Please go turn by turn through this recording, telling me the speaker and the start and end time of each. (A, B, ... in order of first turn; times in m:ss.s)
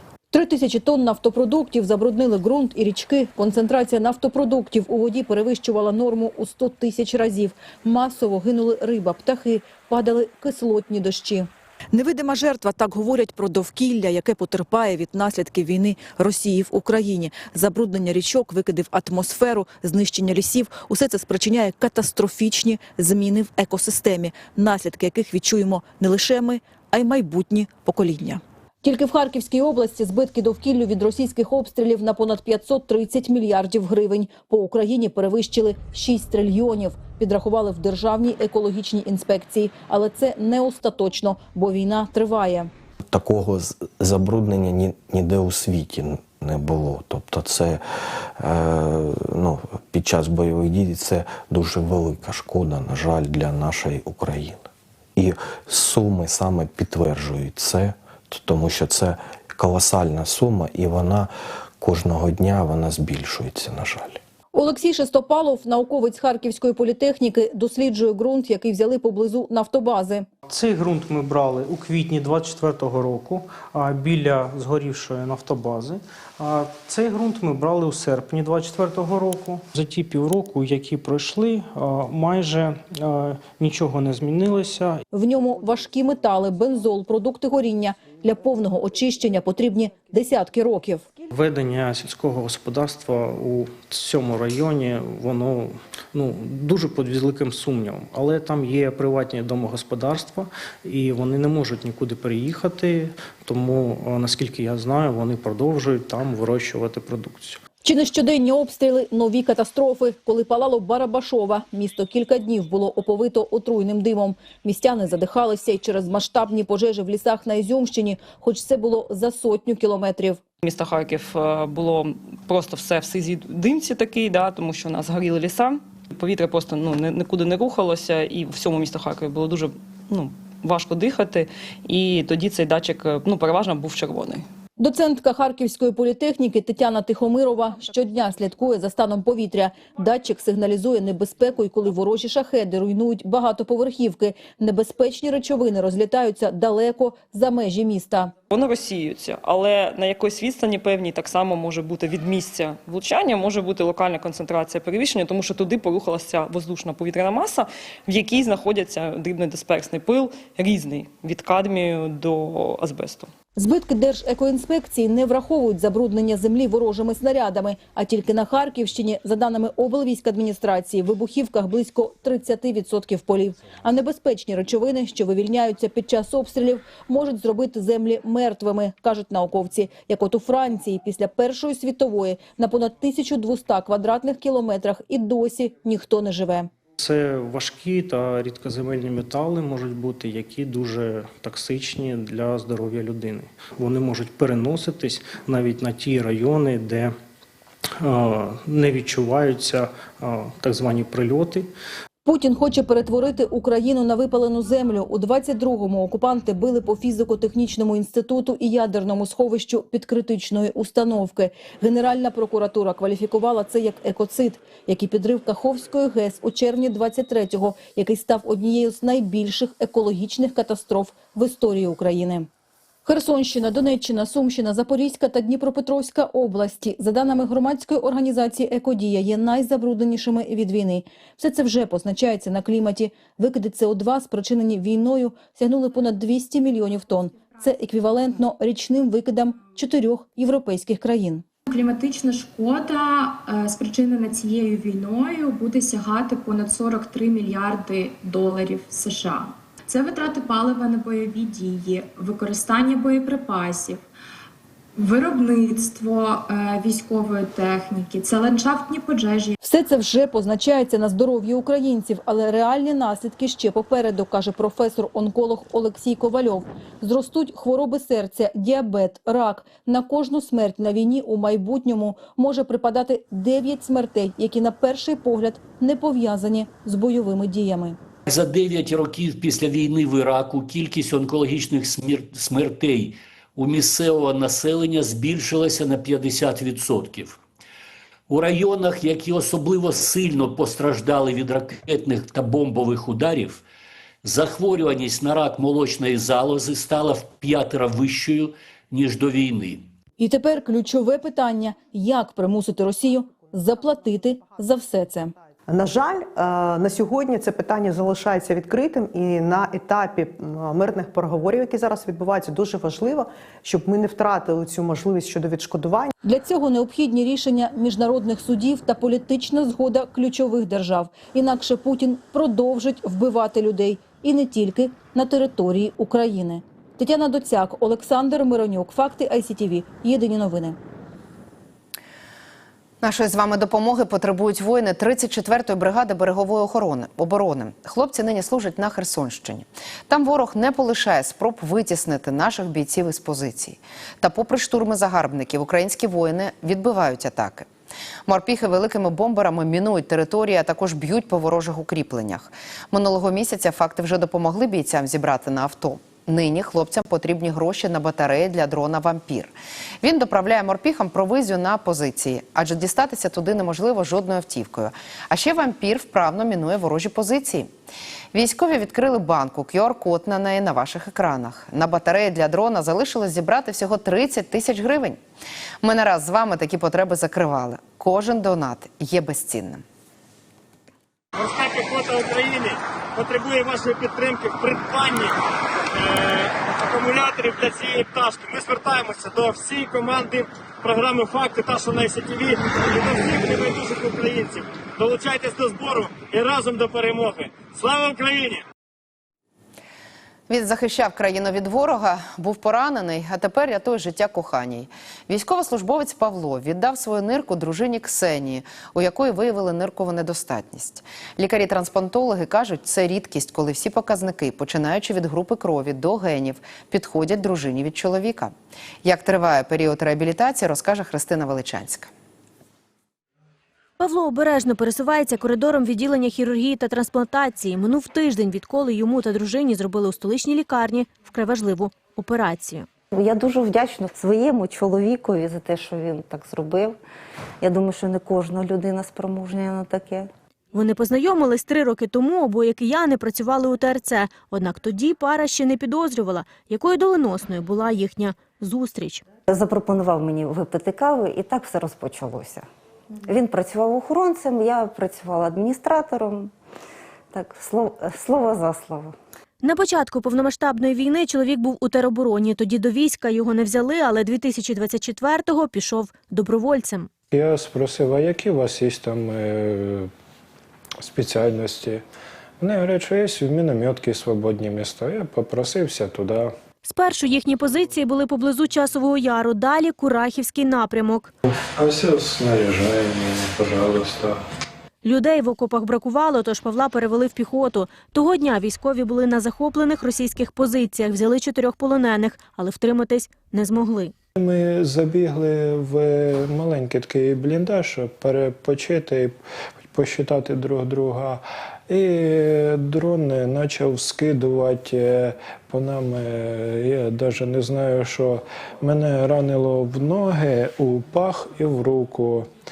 0:00.3-0:42.7 A
0:43.1-0:47.8 B
0:48.4-1:04.2 B
1:04.5-1:10.3 A
1:10.5-1:25.0 C
1:25.1-1:31.1 A
1:31.3-1:47.6 C
1:47.8-2:00.4 A
2:00.6-2:14.4 D
2:14.8-2:28.3 A
2:28.5-2:43.3 D
2:43.6-3:06.7 A
3:07.0-3:17.1 C
3:18.0-3:21.7 C
3:22.2-3:42.5 A
3:43.0-4:01.4 A
4:01.7-4:14.0 E
4:15.0-4:19.5 E
4:19.6-4:38.0 A
4:38.3-4:47.4 F
4:48.3-4:53.6 F
4:54.2-4:59.9 F
5:00.2-5:05.3 A
5:05.7-5:16.1 G
5:16.2-5:30.8 A
5:33.0-5:47.7 H
5:48.3-6:07.7 H
6:08.3-6:15.2 H
6:15.8-6:19.8 H
6:21.4-6:25.3 I
6:26.0-6:38.6 I
6:40.5-7:02.1 H
7:04.0-7:12.9 J
7:13.1-7:17.0 K
7:17.6-7:20.3 K
7:20.7-7:29.2 J
7:29.5-7:32.7 K
7:33.2-7:36.5 K
7:37.3-7:39.2 K
7:39.6-7:47.1 J
7:47.3-7:50.1 L
7:51.0-7:52.0 L
7:52.6-7:56.5 L
7:56.8-8:01.3 J
8:01.8-8:04.4 L
8:05.0-8:14.1 J
8:14.4-8:19.4 L
8:19.9-8:32.5 L